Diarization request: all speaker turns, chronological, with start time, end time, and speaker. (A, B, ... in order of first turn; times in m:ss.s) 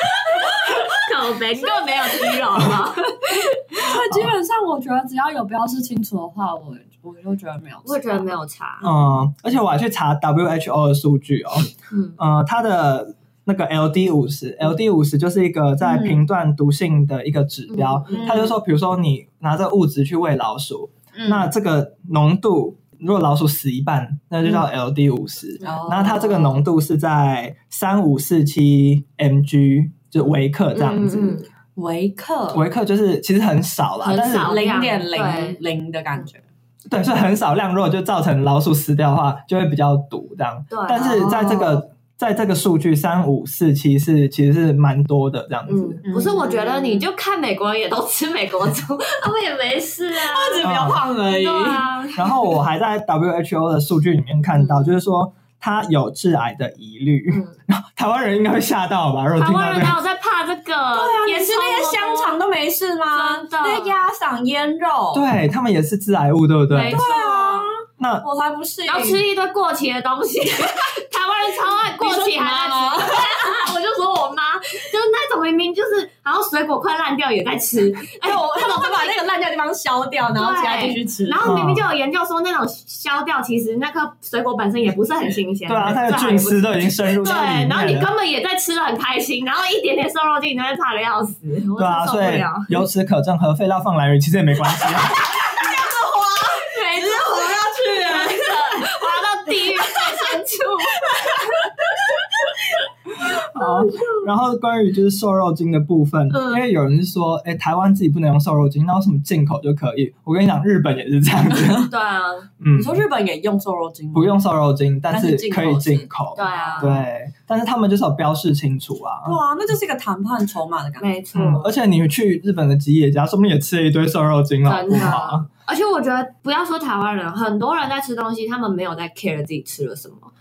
0:00.4-0:03.6 A
0:00.4-0:00.7 B
0:03.3-0:08.3 B
0:07.9-0:08.9 A
0:08.8-0:31.4 C
0:11.9-0:12.2 A
0:15.8-0:16.2 B
0:17.7-0:18.5 A
0:18.1-0:18.6 B
0:21.2-0:21.5 B
0:25.6-0:26.6 B
0:30.7-0:31.5 A
0:31.8-0:32.6 B
0:32.5-0:34.6 C
0:34.0-0:35.6 A
0:34.4-0:36.4 B
0:36.9-0:46.0 C
0:40.7-0:41.8 A
0:41.2-0:41.6 B
0:45.7-0:50.7 A
0:46.0-0:47.1 B
0:50.2-0:51.9 B
0:50.6-0:51.0 C
0:51.3-0:52.4 A
0:52.2-1:00.0 C
0:54.6-0:55.0 A
0:57.3-0:57.6 A
0:59.4-1:02.4 A
1:00.9-1:05.3 B
1:03.1-1:04.0 A
1:05.1-1:07.0 C
1:06.7-1:07.7 A
1:06.9-1:09.2 B
1:08.0-1:08.2 C
1:08.9-1:19.2 A
1:12.0-1:13.6 B
1:18.2-1:21.5 B
1:20.4-1:32.8 A
1:21.4-1:21.9 C
1:25.7-1:28.1 C
1:31.8-1:35.3 C
1:35.3-1:39.1 B
1:36.6-1:41.7 A
1:39.7-1:40.4 B
1:41.0-1:41.4 B
1:43.1-1:51.9 C
1:43.5-1:44.3 A
1:46.3-1:46.6 A
1:51.9-1:52.5 A
1:52.6-1:53.0 C
1:52.8-1:54.4 B
1:54.1-1:59.4 C
1:55.1-1:57.0 B
1:56.4-1:57.0 A
1:59.2-2:01.1 B
2:01.0-2:01.7 A
2:01.3-2:05.5 C
2:04.6-2:10.3 A